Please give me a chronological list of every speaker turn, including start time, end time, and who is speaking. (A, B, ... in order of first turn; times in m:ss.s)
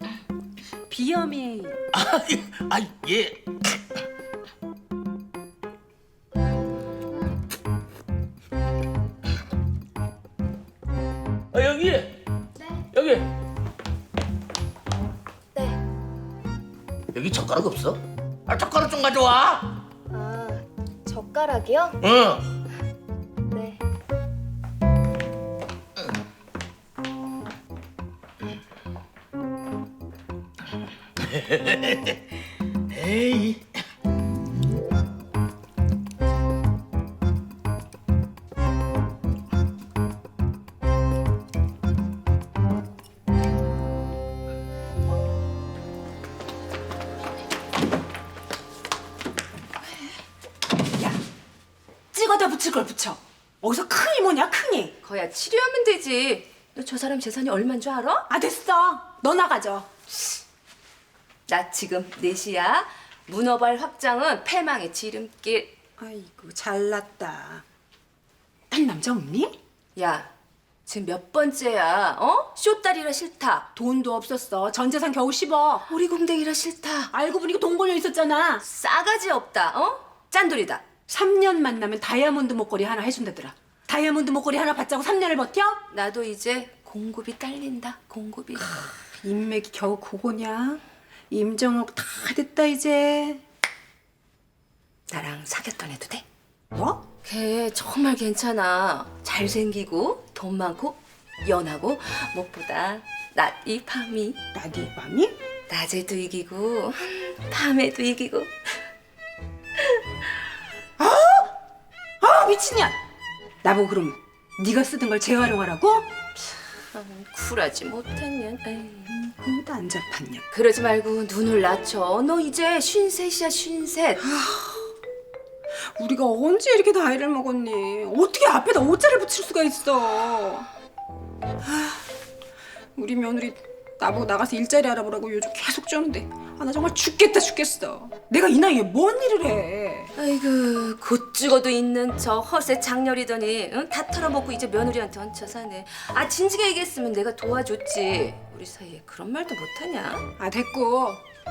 0:00.9-0:01.8 A
0:01.9-0:03.4 B
0:11.5-0:12.1 B
0:12.9-0:13.2 B
0:17.1-0:19.7 B
0:20.1-0:22.0 C
0:22.0-0:22.5 B
0:23.5-0:23.8 C
0:31.3-0:32.1 B
0:32.9-0:33.6 B
0:52.1-0:54.9 A
0:55.0-0:58.3 D
0:58.3-0:59.9 A
1:01.5-1:05.8 D
1:06.0-1:07.6 A
1:08.7-1:09.6 A
1:10.0-1:10.3 D
1:10.9-1:13.7 D
1:13.8-1:15.9 A
1:15.9-1:17.1 D
1:17.1-1:18.6 A
1:18.6-1:20.9 D
1:21.1-1:25.8 A
1:25.9-1:29.0 D
1:29.2-1:33.4 A
1:35.1-1:36.2 D
1:36.7-1:37.0 A
1:37.2-1:44.4 D
1:44.5-1:45.4 A
1:45.7-1:48.7 D
1:51.0-1:51.5 A
1:52.2-1:53.0 A
1:53.6-1:56.1 A
1:56.9-1:59.2 D
1:59.1-2:00.4 A
2:00.5-2:04.2 D
2:04.3-2:04.8 A
2:06.0-2:10.7 A
2:11.6-2:12.0 A
2:13.0-2:20.1 A
2:20.2-2:30.2 D
2:30.4-2:31.2 A